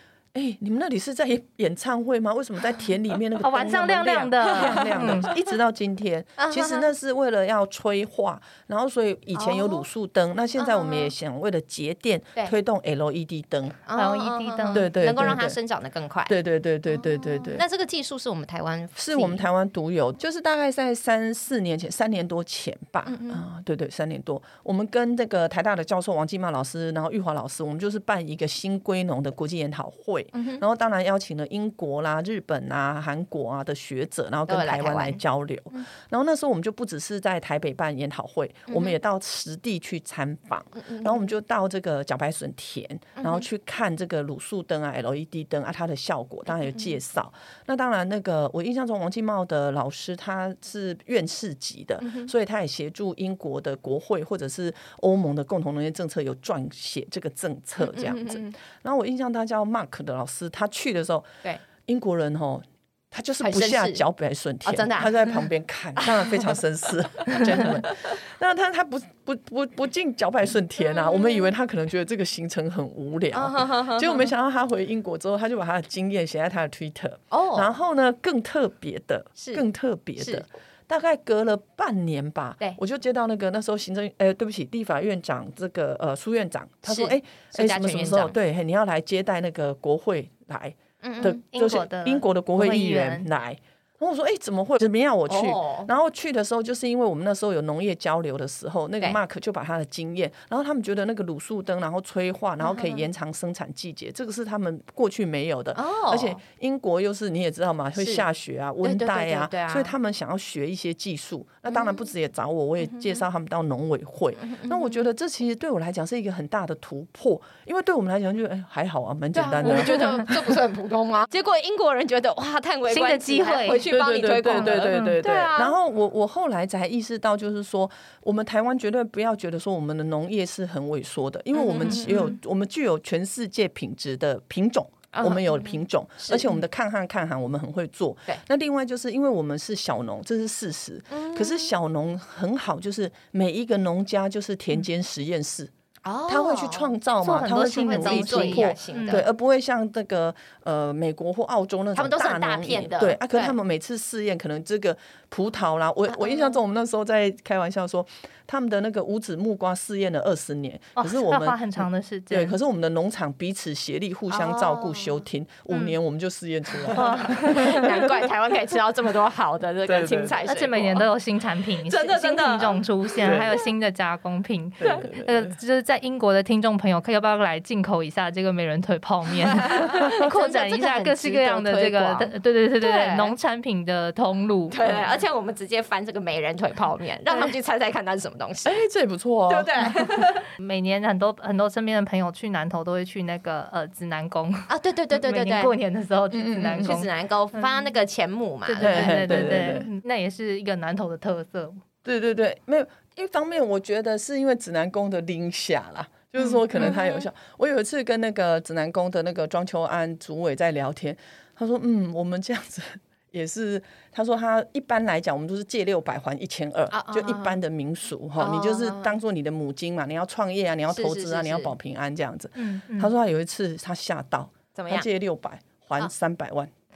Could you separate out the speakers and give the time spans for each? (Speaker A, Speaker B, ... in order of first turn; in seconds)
Speaker A: 0.3-13.8, 14.7-15.6, 16.2-17.6, 19.0-120.5, 123.8-145.7, 146.3-168.1, 169.8-170.4, 173.2-173.6, 174.8-175.5, 184.8-185.1, 188.6-189.7, 196.3-197.0, 198.8-199.9, 202.0-226.7
Speaker B: 3.4-5.3, 13.9-14.9, 91.2-93.3, 119.6-120.2, 122.9-123.8, 124.5-125.2, 131.8-132.3, 147.2-149.2, 161.0-162.6, 166.9-167.9, 170.4-184.8, 187.3-187.5, 190.6-197.8, 198.7-201.8, 222.6-223.1
Speaker C: 4.5-5.4, 6.4-6.9, 9.3-9.9, 10.6-11.1, 13.8-16.4, 16.9-19.4, 23.1-23.4, 30.3-30.6, 34.5-35.2, 38.7-39.0, 40.8-41.2, 43.2-43.5, 52.0-52.3, 57.8-58.5, 63.4-64.0, 64.6-65.5, 66.0-66.6, 67.3-67.8, 70.9-71.5, 73.3-74.3, 77.3-77.7, 79.4-79.6, 80.2-80.4, 86.8-88.3, 91.0-91.4, 95.3-95.9, 102.6-103.1, 105.7-106.4, 108.0-108.2, 108.8-109.9, 111.7-112.1, 112.8-113.2, 114.4-115.0, 119.3-125.8, 131.5-132.3, 135.1-136.5, 141.1-141.7, 146.0-146.9, 147.7-149.3, 151.9-153.6, 156.1-156.6, 164.3-165.2, 167.0-171.1, 171.8-173.6, 179.5-183.3, 184.7-188.8, 189.5-190.5, 194.7-195.7, 196.7-199.8, 206.7-207.2, 216.9-217.6, 218.4-219.2, 220.9-221.7, 224.7-225.1